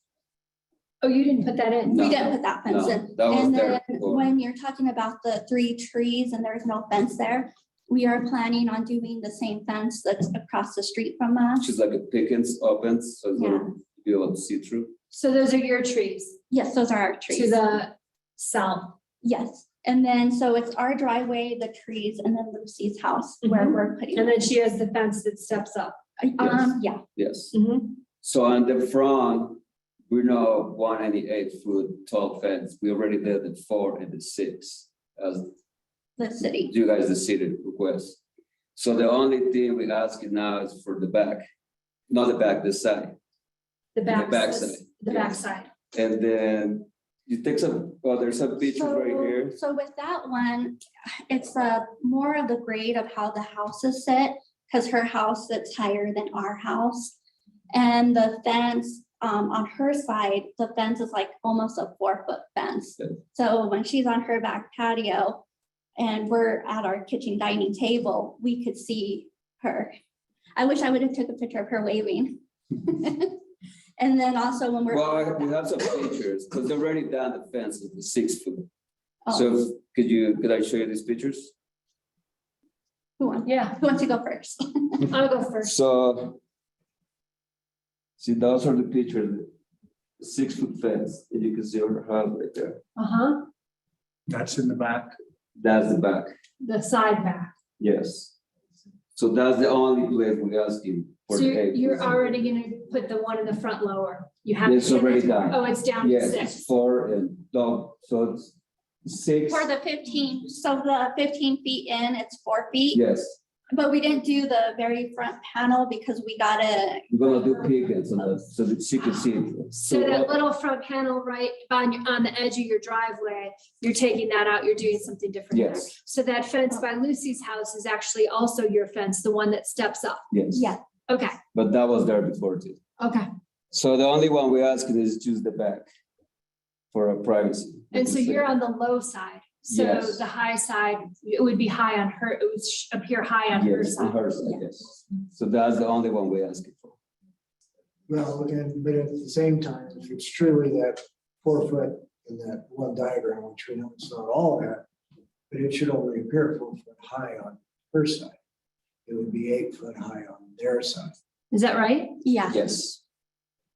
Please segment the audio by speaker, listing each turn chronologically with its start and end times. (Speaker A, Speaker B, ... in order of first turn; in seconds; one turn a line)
Speaker A: 1.0-2.0
Speaker B: 1.9-4.3
Speaker C: 1.9-11.7
Speaker B: 11.6-14.9
Speaker C: 13.3-13.7
Speaker A: 15.1-16.4
Speaker C: 16.5-17.6
Speaker A: 17.3-18.9
Speaker C: 19.2-24.4
Speaker A: 23.4-26.0
Speaker C: 26.2-27.0
Speaker B: 26.4-27.5
Speaker A: 27.5-28.0
Speaker B: 28.2-35.5
Speaker C: 36.2-36.7
Speaker B: 36.6-38.2
Speaker B: 38.8-41.5
Speaker B: 42.1-43.2
Speaker A: 44.0-45.7
Speaker B: 44.1-49.6
Speaker C: 48.6-57.1
Speaker C: 57.7-65.4
Speaker C: 66.0-69.9
Speaker C: 70.6-73.4
Speaker C: 74.0-76.2
Speaker B: 74.9-78.7
Speaker C: 79.3-79.5
Speaker B: 79.3-81.5
Speaker C: 83.2-85.0
Speaker A: 83.5-83.8
Speaker A: 85.1-85.8
Speaker B: 85.6-86.4
Speaker B: 88.2-89.5
Speaker B: 90.2-92.8
Speaker A: 93.0-93.5
Speaker D: 94.3-95.1
Speaker B: 95.6-96.3
Speaker A: 96.6-97.5
Speaker B: 97.8-98.3
Speaker B: 99.2-102.1
Speaker A: 101.3-106.7
Speaker B: 104.6-109.7
Speaker C: 109.5-113.0
Speaker B: 112.9-113.4
Speaker C: 113.7-117.1
Speaker B: 117.1-120.3
Speaker A: 119.7-130.3
Speaker B: 125.5-125.9
Speaker B: 130.3-130.7
Speaker C: 130.6-130.8
Speaker A: 131.1-131.4
Speaker B: 131.5-132.8
Speaker A: 133.0-133.3
Speaker B: 133.7-135.9
Speaker B: 136.9-138.5
Speaker A: 137.9-144.3
Speaker B: 139.7-140.2
Speaker B: 143.5-146.9
Speaker D: 148.1-154.9
Speaker D: 155.5-158.4
Speaker D: 159.1-161.1
Speaker A: 161.5-162.2
Speaker C: 162.2-162.6
Speaker B: 162.5-163.0